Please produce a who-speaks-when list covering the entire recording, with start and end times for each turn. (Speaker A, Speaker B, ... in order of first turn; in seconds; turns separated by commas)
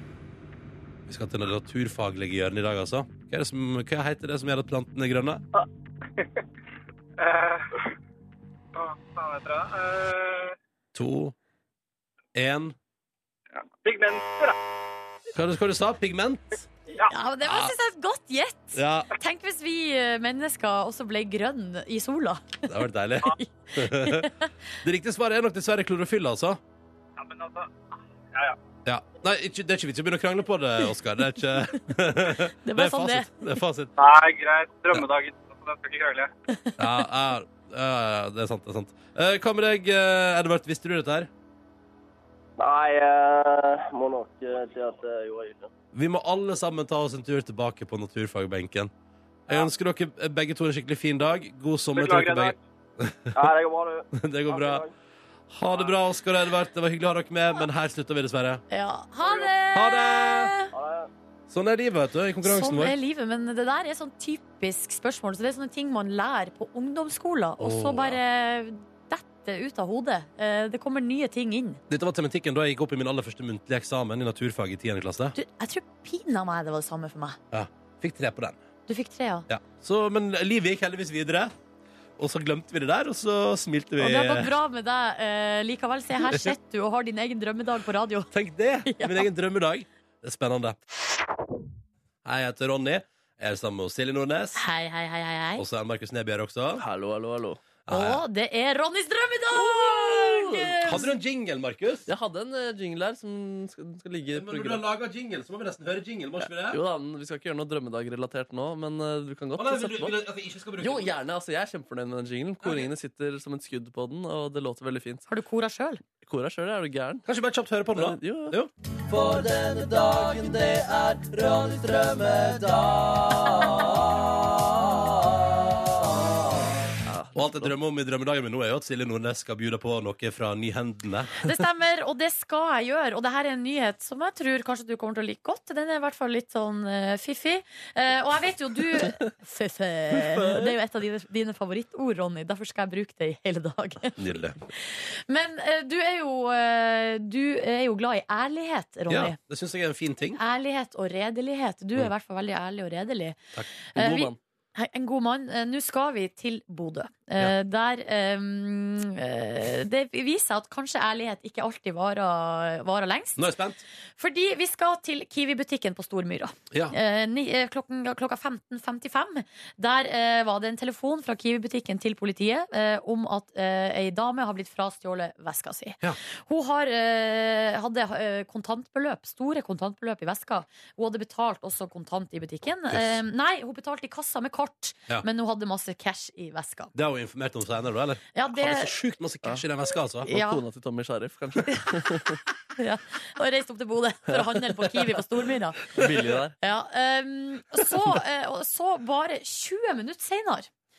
Speaker A: 1.1-5.4, Speaker B: 7.2-7.7, Speaker B: 8.7-10.5, Speaker A: 10.9-11.3, Speaker A: 12.3-12.7, Speaker B: 13.5-14.6, Speaker A: 15.3-16.6, Speaker C: 17.0-24.5, Speaker A: 17.4-17.7, Speaker A: 18.7-19.1, Speaker A: 22.7-24.3, Speaker A: 24.8-26.6, Speaker B: 27.2-27.7, Speaker A: 28.9-33.9, Speaker C: 32.6-33.3, Speaker B: 34.0-36.3, Speaker C: 36.5-36.8, Speaker A: 36.8-41.3, Speaker D: 42.6-45.7, Speaker A: 45.9-48.9, Speaker A: 49.5-53.5, Speaker B: 51.9-52.6, Speaker D: 53.3-54.9, Speaker A: 54.1-54.8, Speaker A: 55.5-58.6, Speaker C: 58.7-60.7, Speaker A: 59.7-60.5, Speaker D: 60.7-61.1, Speaker A: 61.5-62.9, Speaker C: 62.4-71.8, Speaker A: 67.6-68.2, Speaker A: 71.9-75.3, Speaker C: 75.3-77.4, Speaker A: 77.5-78.6, Speaker C: 78.9-79.5, Speaker A: 79.5-81.5, Speaker A: 82.2-84.5, Speaker C: 84.0-88.3, Speaker A: 86.2-86.5, Speaker A: 88.3-90.8, Speaker C: 88.8-89.3, Speaker A: 92.2-94.6, Speaker C: 94.5-95.6, Speaker A: 95.6-96.8, Speaker E: 96.8-97.6, Speaker A: 97.9-98.2, Speaker C: 97.9-101.1, Speaker E: 99.7-101.0, Speaker A: 100.8-102.1, Speaker E: 102.1-104.8, Speaker A: 104.3-106.8, Speaker E: 106.5-110.2, Speaker A: 109.6-111.1, Speaker E: 110.8-115.2, Speaker C: 115.3-116.0, Speaker E: 116.2-117.3, Speaker A: 117.3-118.7, Speaker E: 117.9-118.5, Speaker E: 119.1-125.0, Speaker E: 127.0-127.7, Speaker A: 127.3-131.4, Speaker C: 131.4-144.2, Speaker E: 140.2-140.7, Speaker A: 144.2-144.6, Speaker C: 144.8-149.4, Speaker A: 149.1-150.4, Speaker C: 150.4-153.4, Speaker A: 153.5-154.3, Speaker C: 153.9-163.4, Speaker E: 154.0-154.3, Speaker A: 163.4-163.8, Speaker C: 164.2-186.9, Speaker A: 186.9-190.3, Speaker C: 188.3-188.9, Speaker C: 190.2-190.6, Speaker E: 190.3-192.4, Speaker C: 191.7-192.0, Speaker C: 192.8-195.8, Speaker E: 195.9-196.6, Speaker C: 196.6-200.7